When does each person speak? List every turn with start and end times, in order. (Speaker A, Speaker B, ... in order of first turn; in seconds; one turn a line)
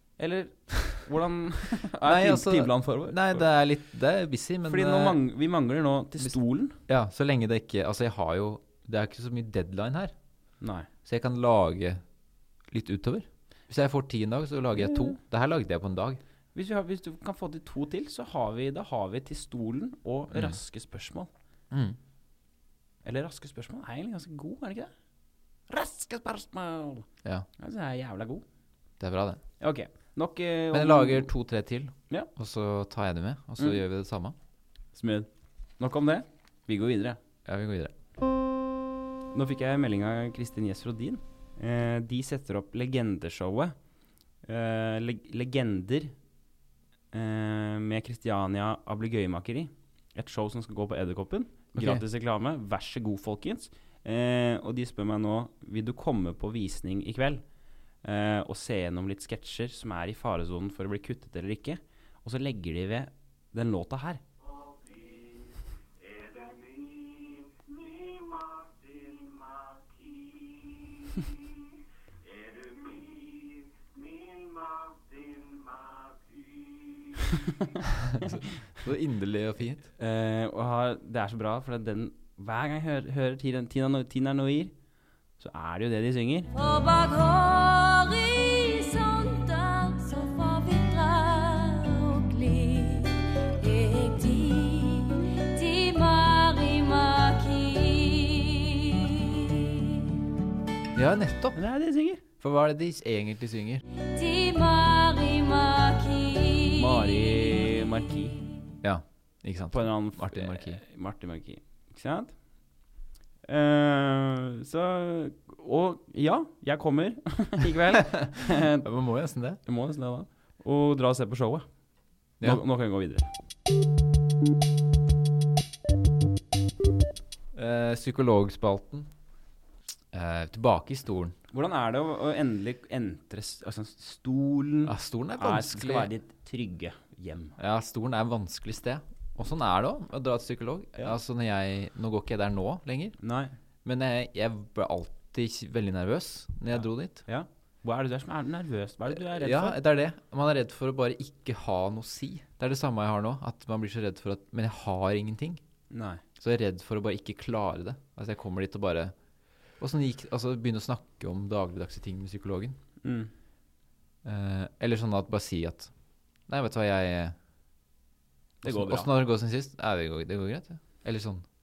Speaker A: 0.2-3.5
Speaker B: 2.0-5.2
Speaker A: 4.7-6.8
Speaker B: 6.9-10.1
Speaker A: 10.6-10.9
Speaker B: 11.1-12.0
Speaker B: 12.7-16.2
Speaker A: 16.6-21.3
Speaker B: 21.7-22.0
Speaker A: 23.0-24.9
Speaker A: 25.7-27.1
Speaker A: 27.6-28.4
Speaker B: 29.0-29.4
Speaker A: 29.6-31.3
Speaker B: 30.7-34.4
Speaker A: 34.9-37.2
Speaker B: 37.5-37.9
Speaker A: 39.3-43.8
Speaker A: 44.4-46.1
Speaker A: 47.1-57.5
Speaker B: 51.8-52.0
Speaker A: 58.0-64.2
Speaker B: 78.1-79.9
Speaker A: 80.0-84.7
Speaker A: 85.4-86.5
Speaker C: 86.5-100.1
Speaker B: 101.0-101.6
Speaker A: 101.5-102.2
Speaker B: 102.4-103.8
Speaker C: 104.1-107.3
Speaker A: 106.8-108.4
Speaker B: 108.8-110.8
Speaker A: 109.7-112.4
Speaker A: 113.5-118.9
Speaker B: 118.8-119.6
Speaker A: 119.6-121.7
Speaker A: 122.4-123.3
Speaker B: 127.5-129.1
Speaker B: 130.1-131.3
Speaker A: 131.5-137.6
Speaker B: 134.9-136.1
Speaker B: 137.6-143.2
Speaker A: 143.2-143.5
Speaker B: 143.8-147.2
Speaker A: 146.7-149.8
Speaker B: 149.1-155.6
Speaker A: 155.9-156.2
Speaker B: 156.4-159.1
Speaker B: 159.8-162.8
Speaker A: 163.0-163.3
Speaker B: 164.2-165.9
Speaker B: 166.5-167.4
Speaker A: 168.6-169.1
Speaker B: 168.6-171.4